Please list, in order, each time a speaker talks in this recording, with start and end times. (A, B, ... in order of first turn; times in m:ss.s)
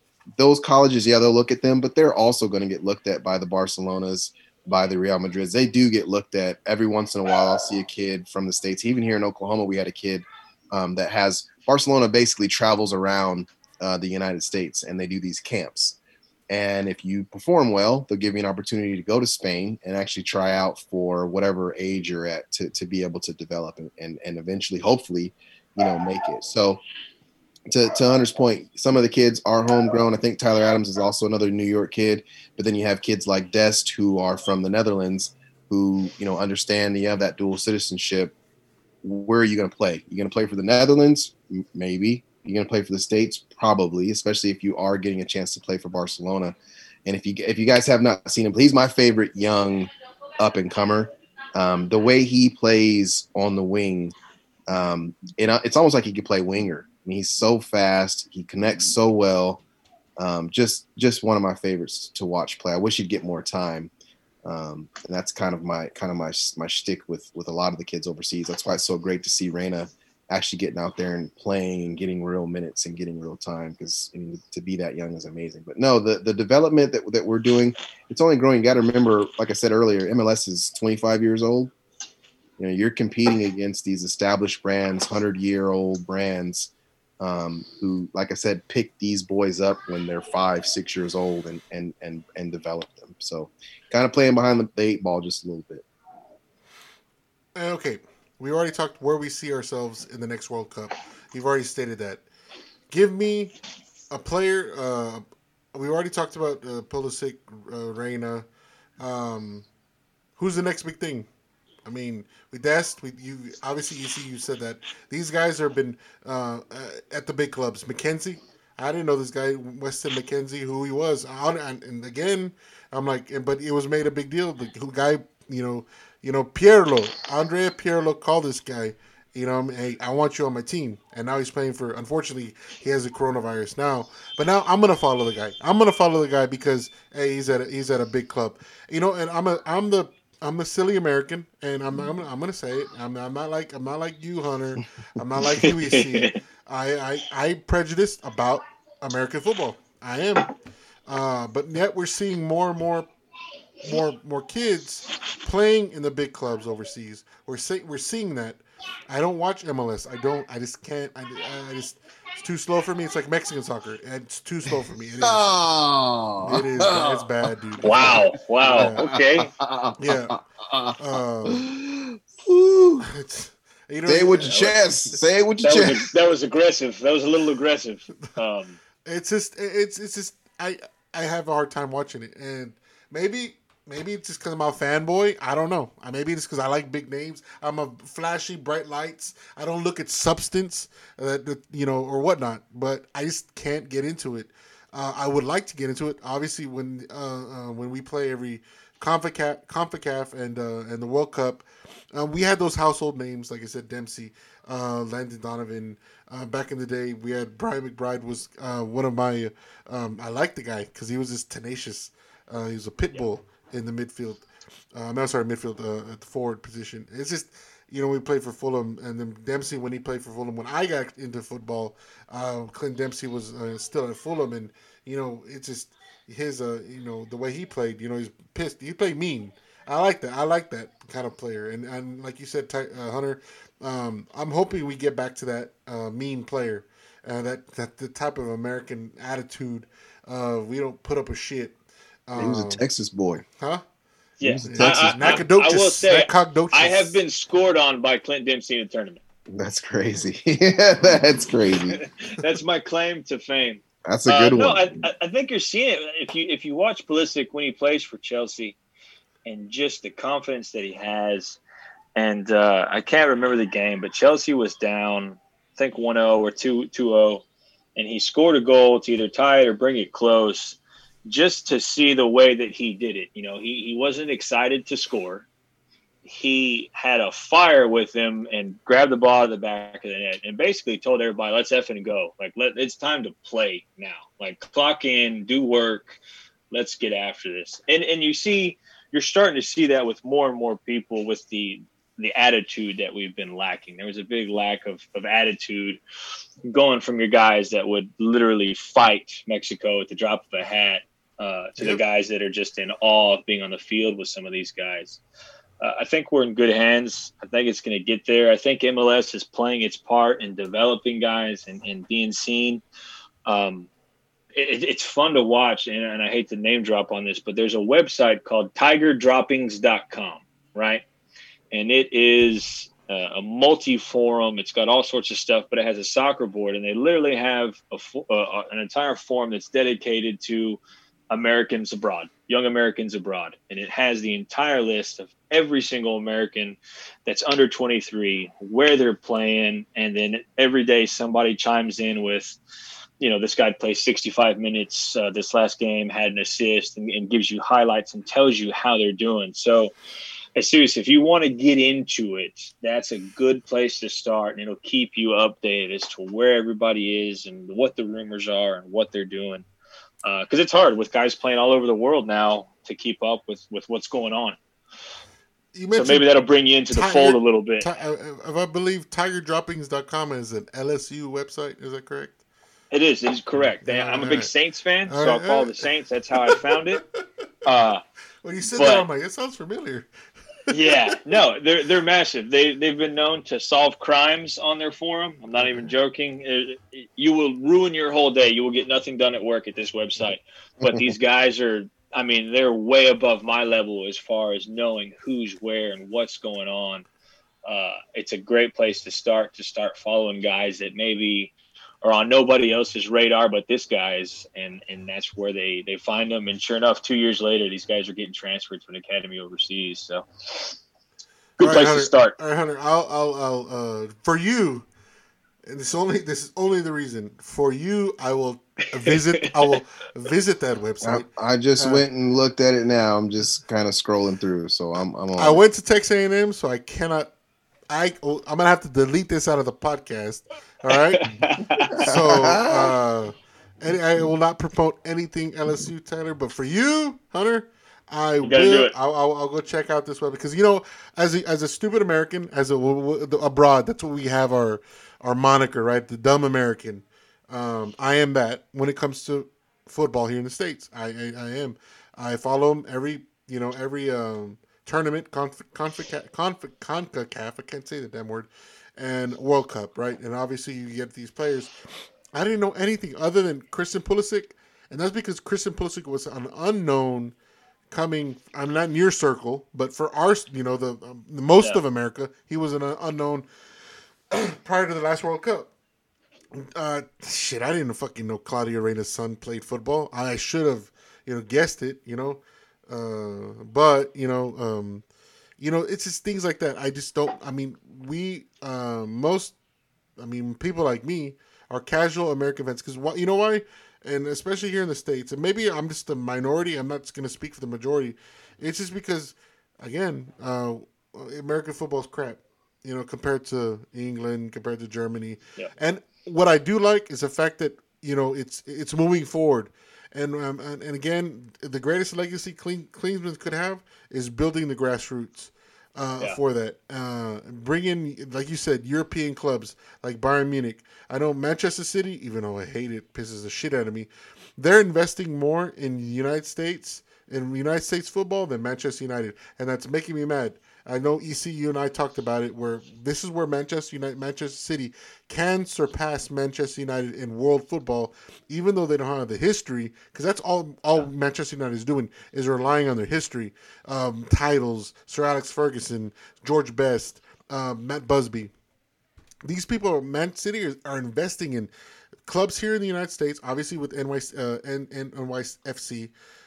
0:00.4-0:16.0 A
0:16.5-0:26.8 A
0:27.7-0:38.3 A
0:39.0-0:54.1 A
0:54.7-0:59.6 A
1:00.2-1:03.9 A
1:04.4-1:21.7 A
1:22.6-1:35.8 A
1:37.6-1:42.2 B
1:42.9-1:43.6 B
1:44.1-1:48.4 B
1:49.0-1:49.6 B
1:50.4-1:51.3 B
1:51.8-2:30.5 B
2:25.6-2:26.4 C
2:31.1-2:33.1 B
2:33.8-2:45.5 B
2:45.2-2:53.1 A
2:46.4-2:49.0 B
2:47.8-2:49.5 C
2:50.0-2:50.4 B
2:51.0-2:51.6 B
2:53.1-2:54.8 B
2:54.0-2:56.2 A
2:55.6-2:58.8 C
2:59.0-4:01.8 B
4:02.3-4:02.8 B
4:02.4-4:03.4 A
4:04.4-4:09.2 C
4:04.4-4:05.4 A
4:04.6-4:07.2 B
4:09.5-4:12.4 A
4:11.9-4:18.8 C
4:14.0-4:15.1 A
4:19.4-4:21.6 C
4:22.2-4:27.4 C
4:28.0-4:35.5 C
4:36.2-4:46.2 C
4:46.7-4:56.0 C
4:56.7-5:05.2 C
5:05.8-5:12.8 C
5:13.5-5:13.9 C
5:14.5-5:21.0 C
5:21.7-5:42.6 C
5:43.2-5:49.9 C
5:50.6-5:59.6 C
6:00.2-6:04.6 C
6:05.7-6:06.3 B
6:05.9-6:07.9 C
6:06.9-6:12.4 B
6:12.9-6:17.0 C
6:13.8-6:14.5 B
6:15.1-6:15.8 B
6:16.4-6:17.0 B
6:17.6-6:18.0 C
6:18.4-6:20.1 B
6:18.7-6:19.1 C
6:20.7-6:37.0 C
6:30.8-6:31.1 A
6:37.6-6:50.8 C
6:51.6-6:52.3 C
6:51.6-6:54.8 B
6:55.6-7:01.2 B
6:59.0-6:59.8 C
7:01.0-7:05.6 A
7:01.8-7:02.0 B
7:05.4-7:07.3 B
7:07.9-7:11.4 B
7:10.9-7:12.0 C
7:11.9-7:12.9 A
7:12.0-7:41.7 B
7:18.4-7:18.9 C
7:42.3-7:47.3 B
7:47.9-7:53.4 B
7:54.3-7:55.7 B
7:56.5-8:05.0 B
8:05.6-8:09.5 B
8:10.2-9:08.5 B
9:09.4-9:11.7 B
9:12.2-9:16.1 B